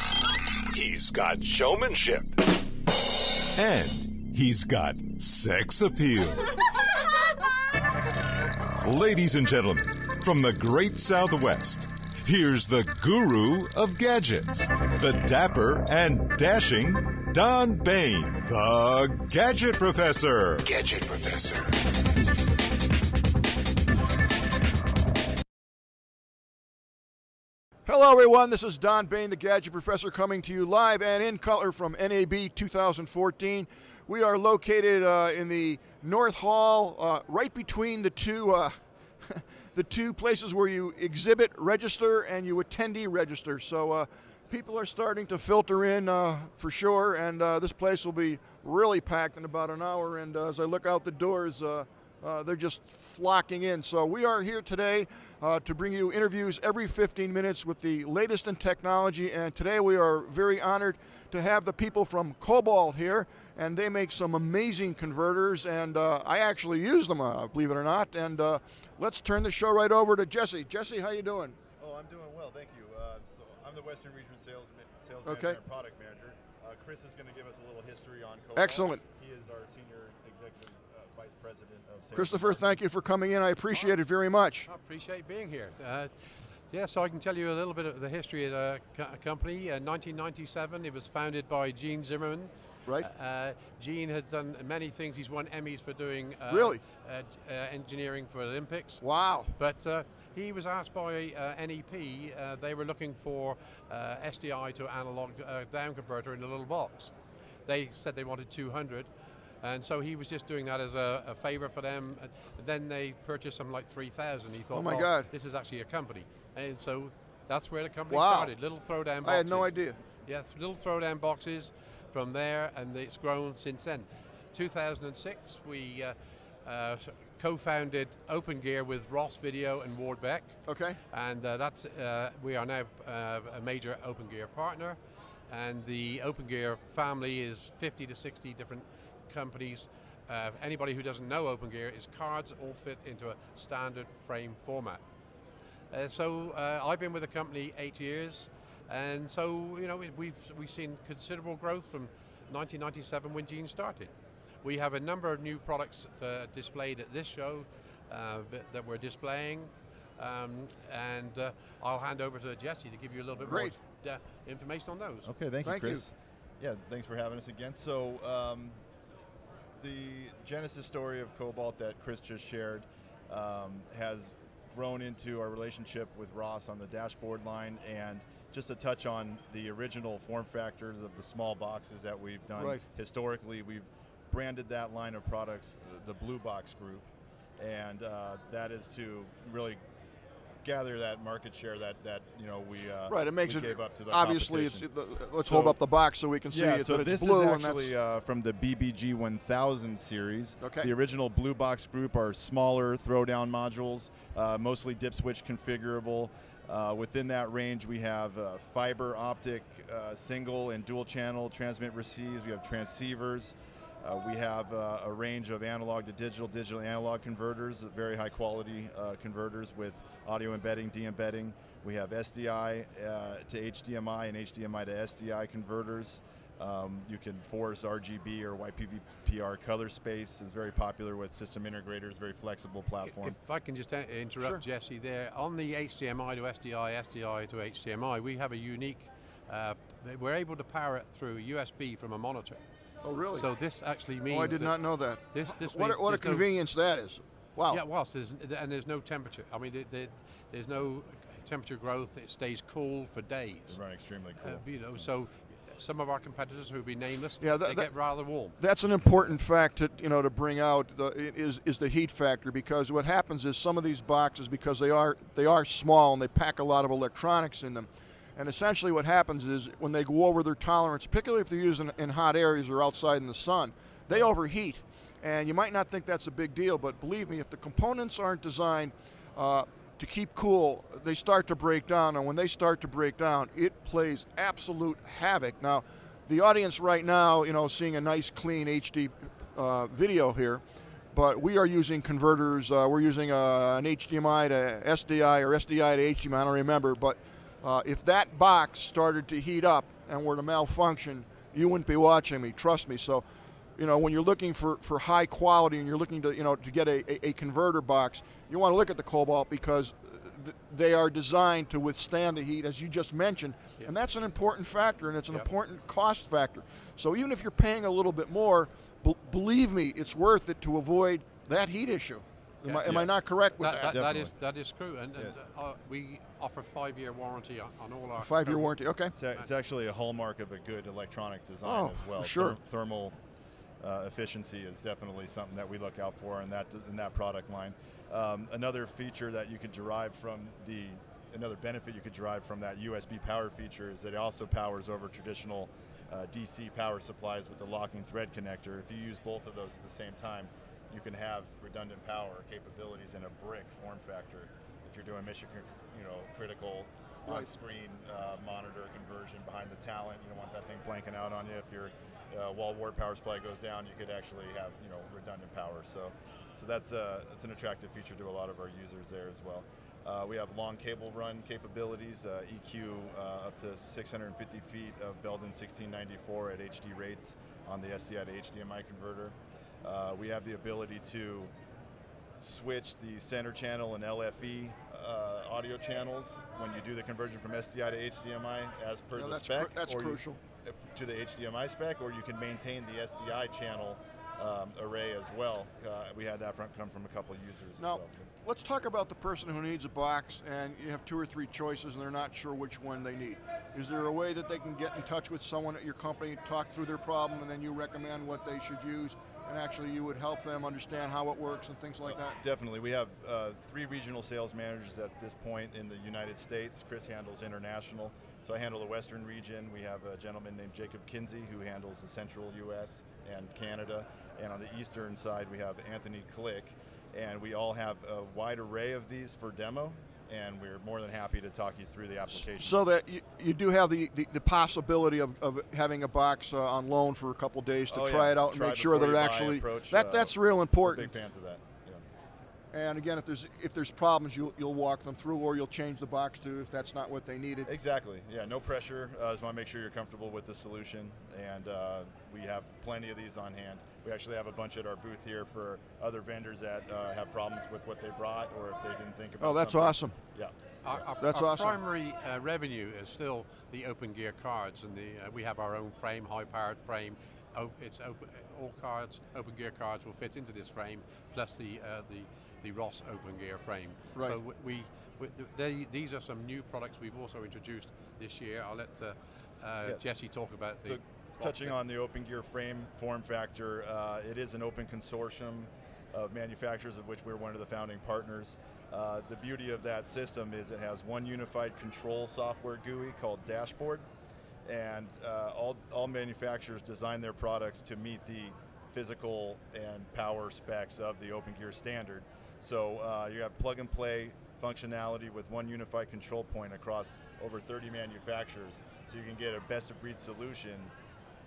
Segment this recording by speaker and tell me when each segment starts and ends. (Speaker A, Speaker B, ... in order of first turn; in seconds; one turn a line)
Speaker A: 0.7-2.3
Speaker A: 3.5-6.5
Speaker A: 8.8-21.8
Speaker B: 27.9-71.6
Speaker C: 71.8-82.8
Speaker B: 75.2-75.6
Speaker B: 78.6-79.0
Speaker B: 82.2-84.7
Speaker D: 84.7-99.0
Speaker B: 96.5-96.8
Speaker B: 99.0-99.5
Speaker D: 99.5-107.1
Speaker D: 107.7-109.1
Speaker D: 109.6-119.7
Speaker B: 114.7-115.3
Speaker B: 118.1-118.5
Speaker B: 119.2-120.0
Speaker D: 120.2-130.6
Speaker B: 130.7-131.0
Speaker D: 131.1-135.0
Speaker D: 135.5-145.0
Speaker D: 145.9-165.3
Speaker B: 163.4-163.7
Speaker C: 165.2-168.8
Speaker B: 165.7-166.0
Speaker C: 169.8-189.8
Speaker B: 182.6-182.8
Speaker C: 190.6-194.9
Speaker B: 193.1-197.9
Speaker C: 195.4-195.8
Speaker C: 196.5-233.4
Speaker B: 200.6-200.9
Speaker D: 233.0-242.6
Speaker B: 243.0-243.5
Speaker D: 243.3-244.8
Speaker B: 244.3-247.8
Speaker D: 245.3-246.5
Speaker D: 247.7-253.8
Speaker C: 253.7-255.1
Speaker D: 254.4-258.5
Speaker B: 257.4-257.9
Speaker B: 258.6-303.2
Speaker B: 303.8-324.0
Speaker D: 322.6-323.1
Speaker C: 322.8-323.1
Speaker D: 323.6-328.7
Speaker C: 323.8-324.3
Speaker B: 328.2-329.2
Speaker C: 329.1-333.2
Speaker B: 331.6-332.6
Speaker C: 333.8-381.5
Speaker C: 382.4-398.3
Speaker B: 389.2-390.4
Speaker B: 397.8-412.4
Speaker C: 412.1-432.8
Speaker B: 432.6-441.1
Speaker C: 437.9-442.1
Speaker B: 442.7-447.7
Speaker C: 447.7-461.0
Speaker B: 459.4-460.1
Speaker D: 460.8-481.7
Speaker B: 461.2-461.8
Speaker C: 480.8-494.0
Speaker C: 494.7-510.9